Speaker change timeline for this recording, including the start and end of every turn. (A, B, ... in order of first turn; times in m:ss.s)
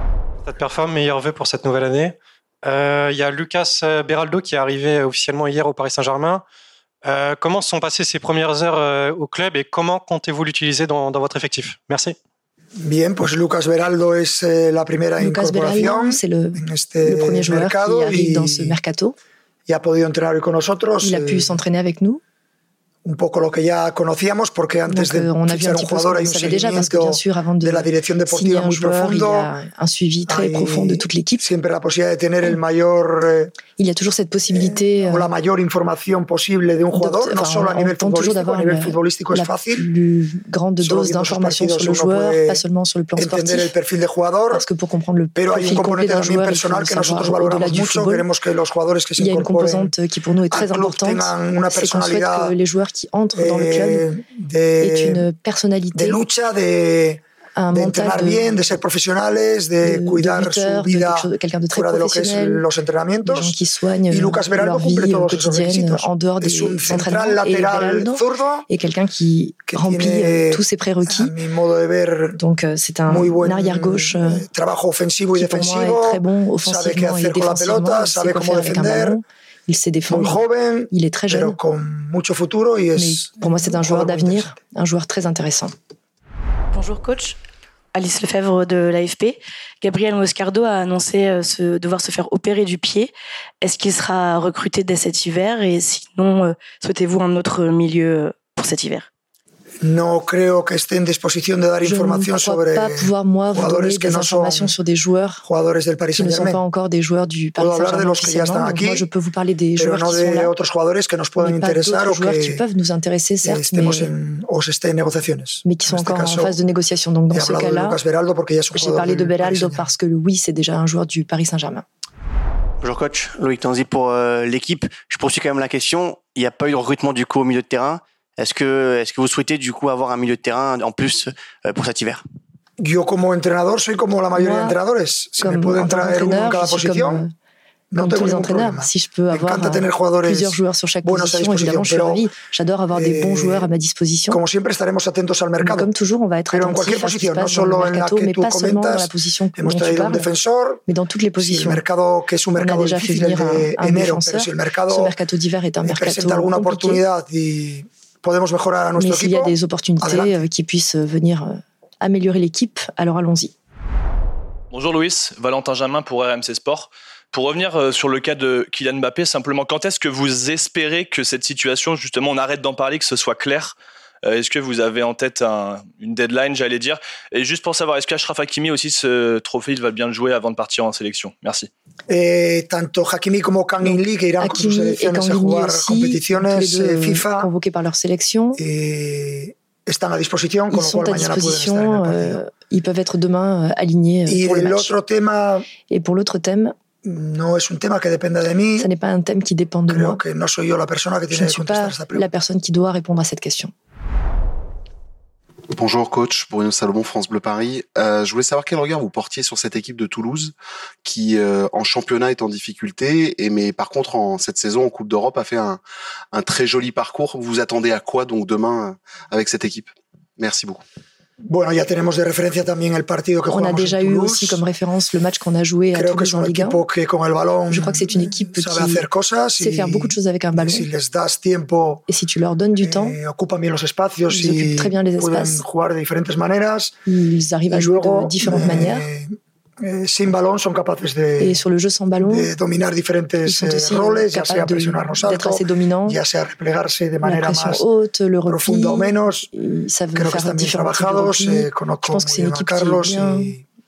0:00.4-0:06.4 A
0:07.0-0:12.2 A
0:12.8-0:18.8 B
0:15.2-0:19.2 C
0:19.7-0:21.6 B
0:21.0-0:22.2 C
0:23.0-0:29.5 B
0:24.9-0:31.4 C
0:30.3-0:33.5 B
0:33.8-0:35.3 C
0:34.5-0:39.9 B
0:36.9-0:43.7 C
0:40.8-0:42.6 B
0:43.2-0:44.6 B
0:44.5-0:48.2 C
0:45.4-0:49.9 B
0:49.2-0:54.0 C
0:50.5-0:52.6 B
0:53.3-0:55.2 B
0:54.8-0:56.2 C
0:55.9-0:57.2 B
0:57.6-0:58.4 C
0:57.7-1:03.6 B
0:59.8-1:02.6 C
1:03.2-1:11.3 C
1:04.1-1:08.6 B
1:09.7-1:12.4 B
1:12.4-1:14.4 C
1:13.1-1:19.2 B
1:15.3-1:21.6 C
1:20.1-1:24.5 B
1:23.0-1:25.7 C
1:26.7-1:27.4 D
1:27.9-1:39.1 D
1:39.8-1:44.7 B
1:41.8-1:45.4 C
1:45.4-1:46.6 B
1:46.1-1:50.5 C
1:47.6-1:49.1 B
1:49.8-1:52.6 B
1:51.4-1:54.1 C
1:53.4-1:56.6 B
1:55.6-1:58.0 C
1:57.3-1:59.9 B
1:58.7-2:01.8 C
2:02.8-2:12.2 E
2:12.8-2:17.2 B
2:14.3-2:14.8 C
2:15.4-2:17.3 C
2:17.9-2:22.3 B
2:18.0-2:24.4 C
2:22.9-2:23.7 B
2:24.3-2:25.9 B
2:25.6-2:30.3 C
2:26.5-2:30.8 B
2:30.9-2:31.8 C
2:31.4-2:35.2 B
2:32.6-2:37.0 C
2:35.8-2:40.4 B
2:39.0-2:43.5 C
2:44.7-3:01.7 F
3:02.1-3:07.5 B
3:03.8-3:08.6 C
3:08.6-3:12.4 B
3:10.7-3:14.9 C
3:14.3-3:15.7 B
3:15.9-3:16.7 C
3:17.0-3:18.9 B
3:18.8-3:20.2 C
3:19.9-3:22.3 B
3:21.3-3:23.7 C
3:25.7-3:30.5 G
3:31.0-3:35.8 G
3:36.3-3:40.8 G
3:41.4-3:44.6 B
3:43.5-3:46.8 C
3:45.9-3:52.0 B
3:47.7-3:49.0 C
3:49.6-3:50.9 C
3:52.1-3:53.2 C
3:52.8-3:57.0 B
3:54.3-3:55.6 C
3:57.0-3:59.1 C
3:57.7-4:01.6 B
4:01.4-4:02.5 C
4:02.2-4:07.8 B
4:03.4-4:06.2 C
4:07.2-4:13.5 C
4:08.5-4:09.5 B
4:10.1-4:13.6 B